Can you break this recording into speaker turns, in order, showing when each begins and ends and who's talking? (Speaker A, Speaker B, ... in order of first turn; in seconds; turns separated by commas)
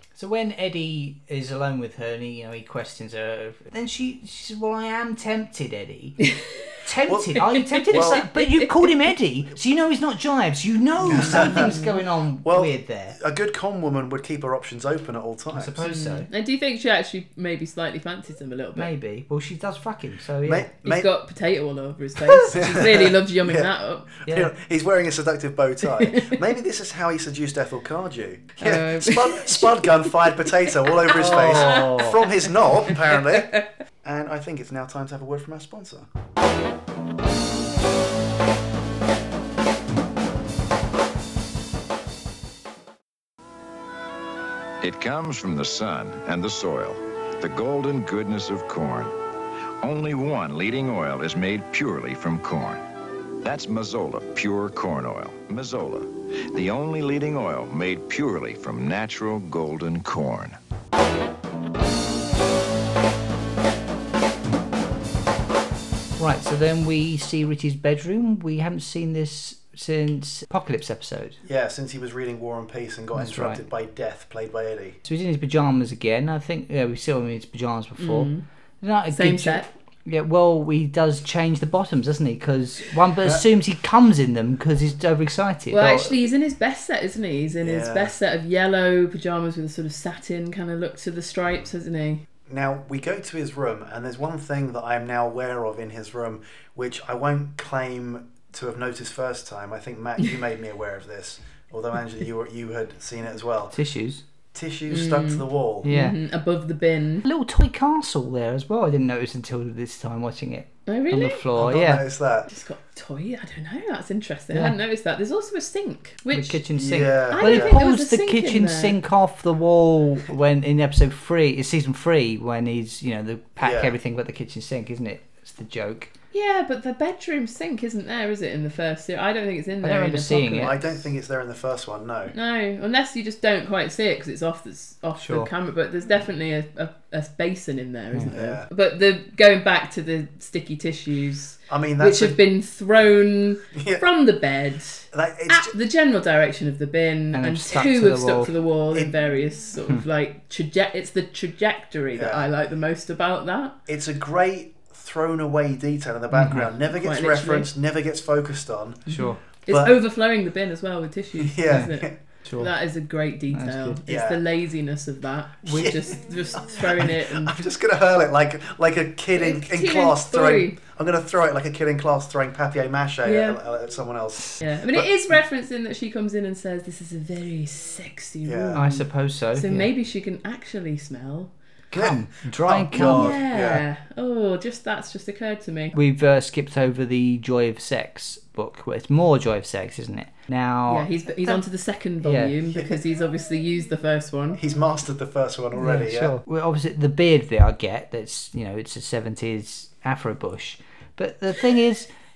Speaker A: 0.1-6.2, Speaker B: 6.2-6.6, Speaker A: 6.8-13.2, Speaker C: 7.1-8.2, Speaker B: 7.5-8.8, Speaker C: 11.0-11.8, Speaker B: 11.1-12.0, Speaker C: 12.4-15.8, Speaker A: 15.5-16.3, Speaker B: 15.8-18.9, Speaker A: 18.8-20.7, Speaker C: 20.4-21.1, Speaker B: 20.8-24.1, Speaker A: 22.2-23.1, Speaker C: 22.5-36.1, Speaker A: 24.2-24.5, Speaker B: 26.0-26.4, Speaker B: 28.6-30.1, Speaker B: 30.9-32.2, Speaker A: 31.1-32.2, Speaker B: 32.8-33.7, Speaker D: 44.8-49.2, Speaker D: 49.8-52.9, Speaker D: 53.4-60.6, Speaker A: 66.2-71.4, Speaker C: 71.4-75.0, Speaker A: 73.1-73.6, Speaker A: 75.0-86.1, Speaker B: 78.0-78.4, Speaker B: 79.1-79.7, Speaker B: 85.7-92.2, Speaker C: 87.6-88.1, Speaker C: 92.5-103.8, Speaker A: 103.7-104.2, Speaker C: 104.5-105.9, Speaker B: 104.9-107.2, Speaker A: 105.8-106.2, Speaker A: 107.2-112.0, Speaker B: 110.9-111.4, Speaker C: 111.5-112.5, Speaker B: 112.5-116.6, Speaker A: 116.3-126.1, Speaker C: 116.7-117.7, Speaker B: 117.3-119.0, Speaker C: 123.6-123.9, Speaker B: 126.3-131.0, Speaker A: 129.8-130.7, Speaker C: 130.6-132.3, Speaker B: 132.3-153.8, Speaker A: 135.2-135.5, Speaker A: 138.1-138.4, Speaker C: 138.3-138.7, Speaker C: 141.7-142.4, Speaker C: 143.7-144.0, Speaker C: 145.1-145.7, Speaker A: 147.3-148.5, Speaker C: 152.1-152.5, Speaker C: 153.9-159.1, Speaker A: 156.3-156.7, Speaker B: 156.9-157.7, Speaker B: 159.1-167.6, Speaker A: 159.1-159.4, Speaker C: 159.7-159.9, Speaker C: 161.4-162.2, Speaker A: 162.4-162.7, Speaker A: 163.5-164.0, Speaker C: 164.1-164.4, Speaker C: 165.6-175.1, Speaker B: 169.3-170.8, Speaker B: 173.2-173.6, Speaker B: 174.6-181.5, Speaker C: 178.4-178.8, Speaker A: 178.7-179.9, Speaker A: 181.9-183.4, Speaker C: 181.9-183.8, Speaker B: 182.9-185.9, Speaker A: 185.9-191.6, Speaker B: 190.9-194.6, Speaker A: 192.2-192.5, Speaker C: 194.6-196.4, Speaker A: 195.8-202.1